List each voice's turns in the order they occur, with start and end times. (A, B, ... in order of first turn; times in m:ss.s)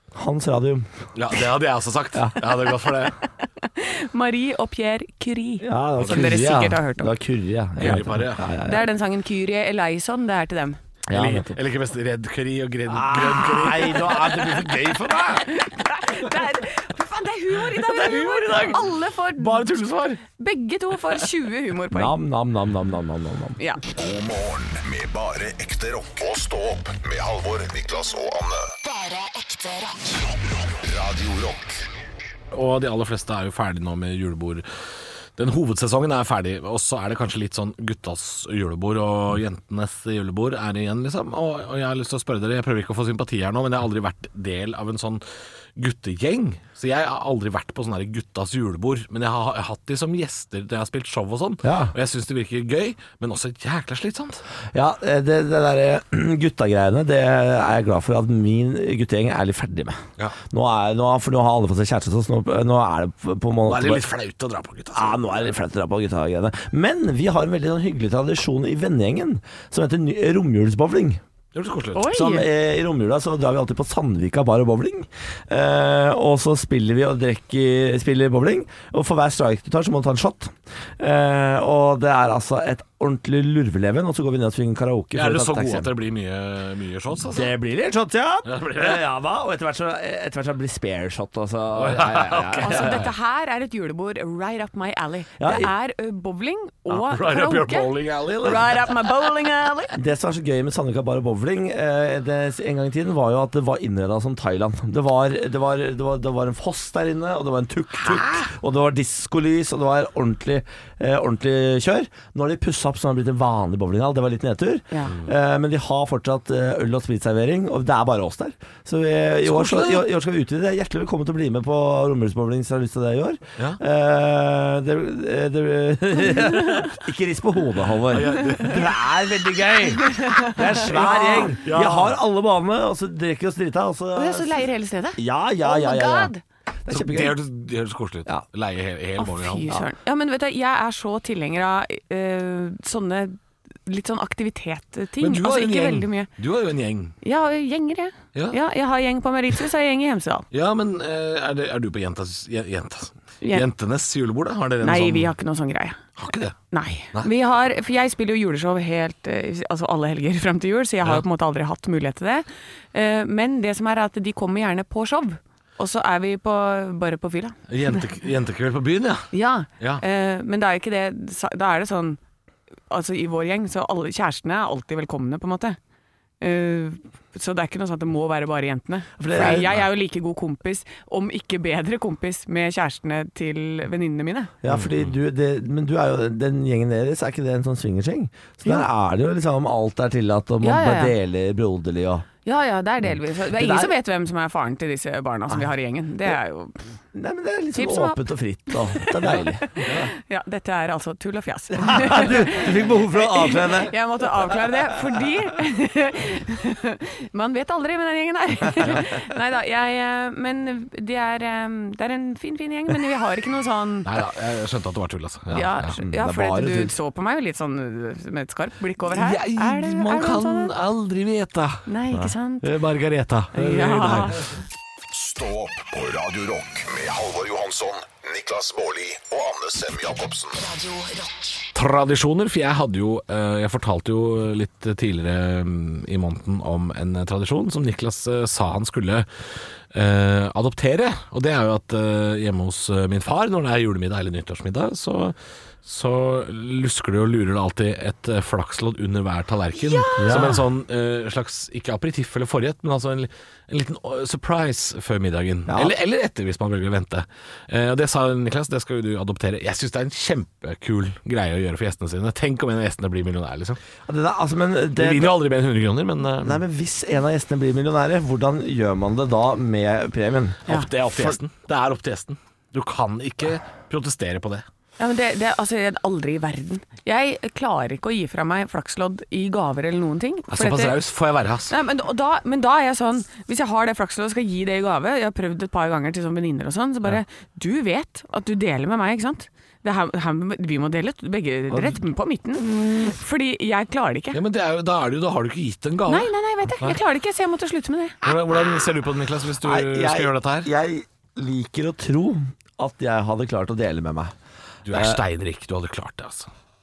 0:00.1-0:00.9 A
0:01.1-0:03.2 B
0:03.6-0:07.1 C
0:05.6-0:08.8 A
0:06.0-0:06.4 B
0:07.8-0:08.5 B
0:08.6-0:10.8 C
0:11.1-0:11.6 A
0:11.1-0:15.4 B
0:12.9-0:15.4 A
0:15.5-0:19.7 C
0:17.9-0:18.8 B
0:19.4-0:20.2 B
0:20.3-0:22.2 C
0:21.9-0:23.6 A
0:23.6-0:23.8 C
0:24.0-0:28.7 D
0:28.8-0:30.2 E
0:30.7-0:31.8 D
0:32.5-0:34.6 B
0:35.4-0:45.2 B
0:45.8-0:54.4 B
0:51.6-0:51.9 A
0:54.7-1:04.0 A
1:03.6-1:05.4 B
1:04.9-1:11.2 A
1:11.5-1:12.1 B
1:11.9-1:12.4 C
1:12.1-1:25.9 A
1:25.1-1:27.5 B
1:27.3-1:33.1 A
1:28.4-1:29.0 B
1:31.7-1:33.1 B
1:32.6-1:39.9 C
1:35.4-1:35.7 A
1:36.9-1:39.0 B
1:39.9-2:14.5 A
1:59.4-2:00.0 B
2:08.1-2:08.9 B
2:10.0-2:11.6 C
2:10.6-2:12.2 B
2:14.1-2:16.4 C
2:15.2-2:16.3 A
2:16.8-2:17.4 A
2:16.9-2:19.8 B
2:19.2-2:26.3 C
2:25.2-2:27.2 B
2:27.2-2:30.5 C
2:30.5-2:35.3 B
2:34.8-2:36.0 C
2:36.2-2:36.6 B
2:36.7-2:48.0 C
2:47.7-2:50.0 B
2:49.3-2:52.2 C
2:52.9-2:55.8 C
2:56.4-3:04.5 C
2:59.2-2:59.7 A
2:59.4-2:59.8 B
3:04.6-3:12.2 A
3:04.7-3:05.1 B
3:10.6-3:11.1 C
3:12.4-3:16.8 C
3:13.5-3:13.9 A
3:17.1-3:20.0 A
3:17.7-3:34.1 C
3:19.8-3:20.1 B
3:21.8-3:23.9 A
3:34.0-3:35.9 B
3:35.5-3:40.7 C
3:35.9-3:36.9 A
3:39.1-3:41.8 B
3:41.9-3:42.7 C
3:42.6-3:44.4 B
3:43.5-3:44.4 C
3:45.1-3:50.6 D
3:50.6-3:51.6 E
3:51.7-3:59.3 B
3:59.9-4:23.8 B
4:09.8-4:10.5 C
4:10.2-4:10.6 A
4:15.7-4:15.9 A
4:24.1-4:25.4 A
4:25.0-4:26.6 B
4:26.4-4:31.4 A
4:30.7-4:34.6 B
4:35.0-4:41.0 C
4:40.5-4:41.7 B
4:41.7-4:54.4 C
4:54.3-4:57.0 B
4:56.1-4:58.2 C
4:58.2-5:00.7 B
4:59.6-5:04.3 A
5:04.8-5:06.5 B
5:04.9-5:05.2 A